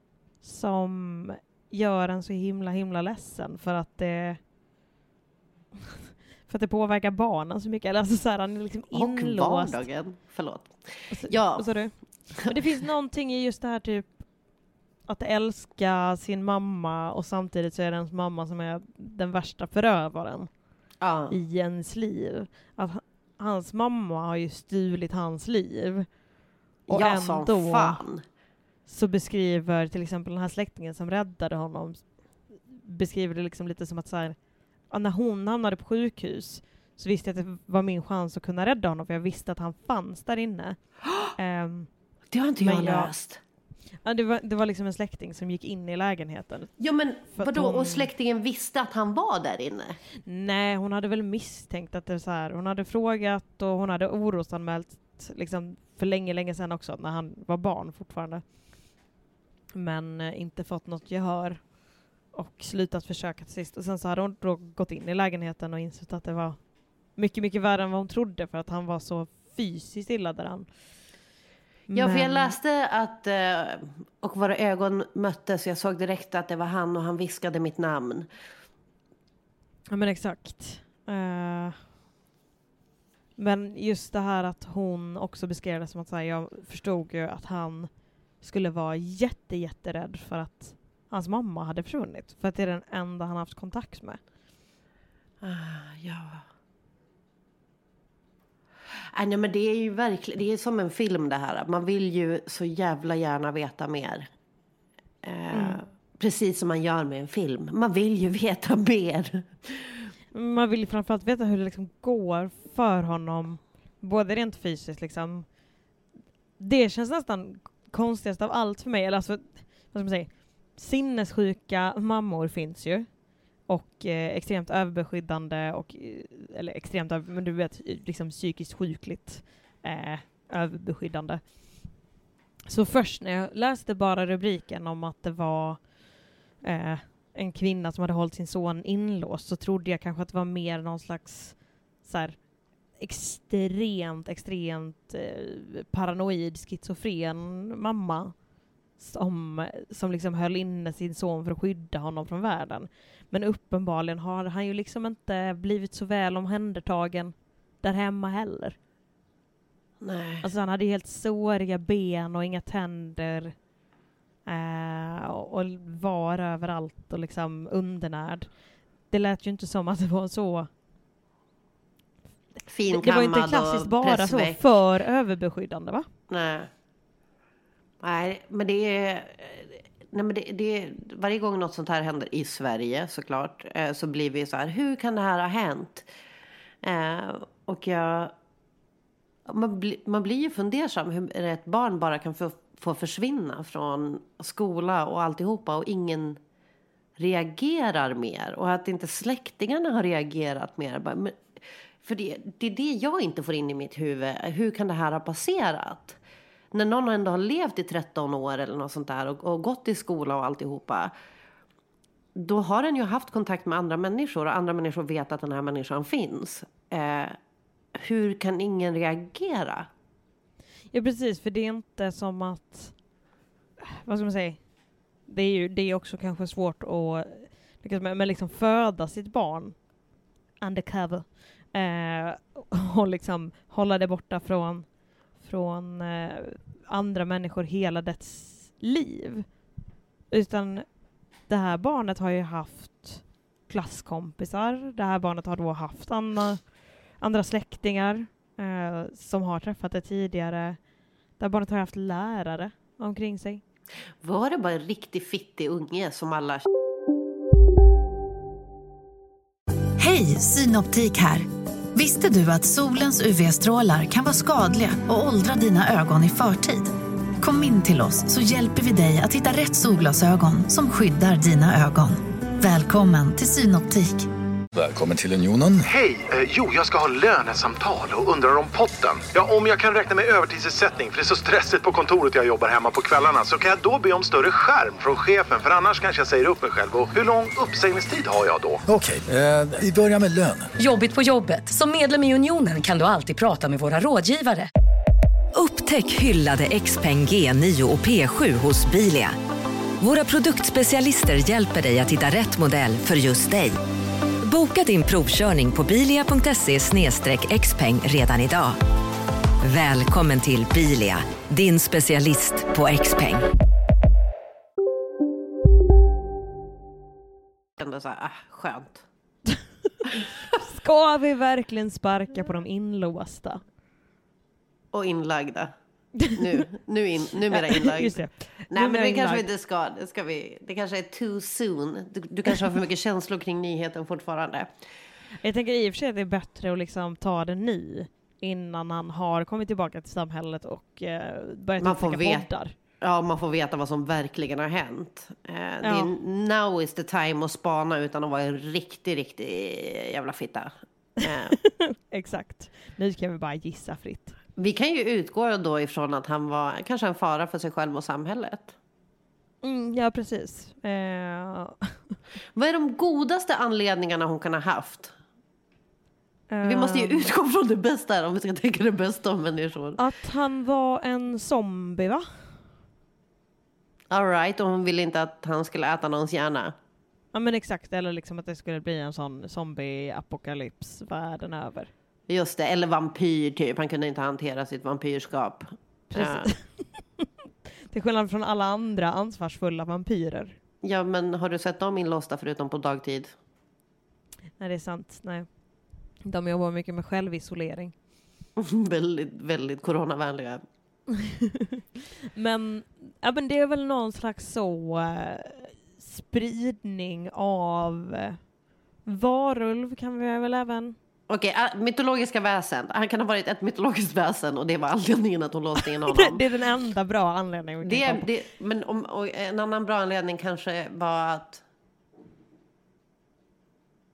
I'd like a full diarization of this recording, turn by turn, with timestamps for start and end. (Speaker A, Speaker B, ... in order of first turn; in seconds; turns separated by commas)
Speaker A: 0.4-4.4, Speaker A: 6.5-9.8, Speaker B: 8.9-11.7, Speaker A: 11.1-14.1, Speaker B: 12.4-12.7, Speaker A: 15.1-20.5, Speaker B: 21.0-21.4, Speaker A: 21.3-26.1, Speaker A: 26.9-28.0, Speaker B: 26.9-28.2, Speaker A: 28.9-32.0, Speaker A: 32.7-34.4, Speaker A: 34.9-40.8, Speaker A: 41.4-41.9, Speaker B: 42.3-43.4, Speaker A: 42.6-43.1, Speaker A: 44.0-46.7, Speaker B: 46.8-50.0, Speaker A: 47.3-48.1, Speaker A: 50.3-58.4, Speaker A: 59.7-61.7, Speaker A: 62.3-66.6, Speaker A: 67.1-70.7, Speaker A: 71.9-72.5, Speaker B: 71.9-78.3, Speaker A: 79.9-81.8, Speaker A: 83.4-87.9, Speaker A: 88.4-94.2, Speaker B: 95.4-96.4, Speaker B: 99.1-104.3, Speaker B: 105.2-110.0, Speaker A: 105.5-105.8, Speaker A: 110.3-115.5, Speaker A: 116.6-123.1, Speaker A: 123.7-131.4, Speaker A: 132.7-135.9, Speaker A: 136.6-142.4, Speaker A: 143.0-148.3, Speaker A: 149.0-158.8, Speaker B: 160.0-160.5, Speaker A: 160.4-163.5, Speaker A: 164.5-168.5, Speaker A: 169.1-170.7, Speaker B: 172.7-174.6, Speaker A: 172.9-176.1, Speaker B: 176.3-176.7, Speaker B: 178.0-186.1, Speaker B: 186.8-188.3, Speaker B: 189.5-196.4, Speaker B: 197.2-206.2, Speaker B: 206.7-211.1, Speaker B: 212.3-217.4, Speaker B: 217.9-219.9, Speaker A: 220.9-222.9, Speaker A: 223.8-224.6, Speaker A: 225.3-229.8, Speaker A: 230.6-234.9, Speaker A: 235.4-239.5, Speaker A: 240.3-240.8, Speaker A: 241.5-246.7, Speaker A: 247.2-250.8, Speaker A: 251.4-253.6, Speaker B: 254.2-256.7, Speaker C: 260.0-274.3, Speaker D: 274.8-275.8, Speaker E: 275.8-288.8, Speaker D: 288.9-290.7, Speaker F: 290.8-294.7, Speaker G: 295.6-299.4, Speaker G: 300.0-303.8, Speaker G: 304.4-308.8, Speaker G: 309.6-313.5, Speaker B: 317.8-319.1, Speaker A: 320.5-323.6, Speaker B: 324.9-325.7, Speaker A: 326.2-326.6, Speaker B: 326.3-334.7, Speaker A: 327.5-329.4, Speaker A: 335.4-342.7, Speaker B: 341.8-342.5, Speaker B: 343.0-351.6, Speaker A: 345.8-346.1, Speaker A: 351.6-354.4, Speaker B: 354.6-358.8, Speaker A: 359.6-361.9, Speaker B: 362.6-365.1, Speaker A: 366.5-367.3, Speaker B: 366.6-370.0, Speaker A: 370.0-372.3, Speaker B: 374.1-376.7, Speaker A: 377.3-381.9, Speaker B: 382.3-386.5, Speaker A: 386.1-387.3, Speaker A: 387.9-390.6, Speaker B: 390.8-393.4, Speaker A: 394.6-395.5, Speaker A: 396.3-397.9, Speaker B: 398.6-400.6, Speaker A: 401.2-401.8, Speaker A: 402.4-408.4, Speaker A: 409.1-411.0, Speaker B: 411.3-416.4, Speaker A: 416.0-418.3, Speaker B: 417.8-421.6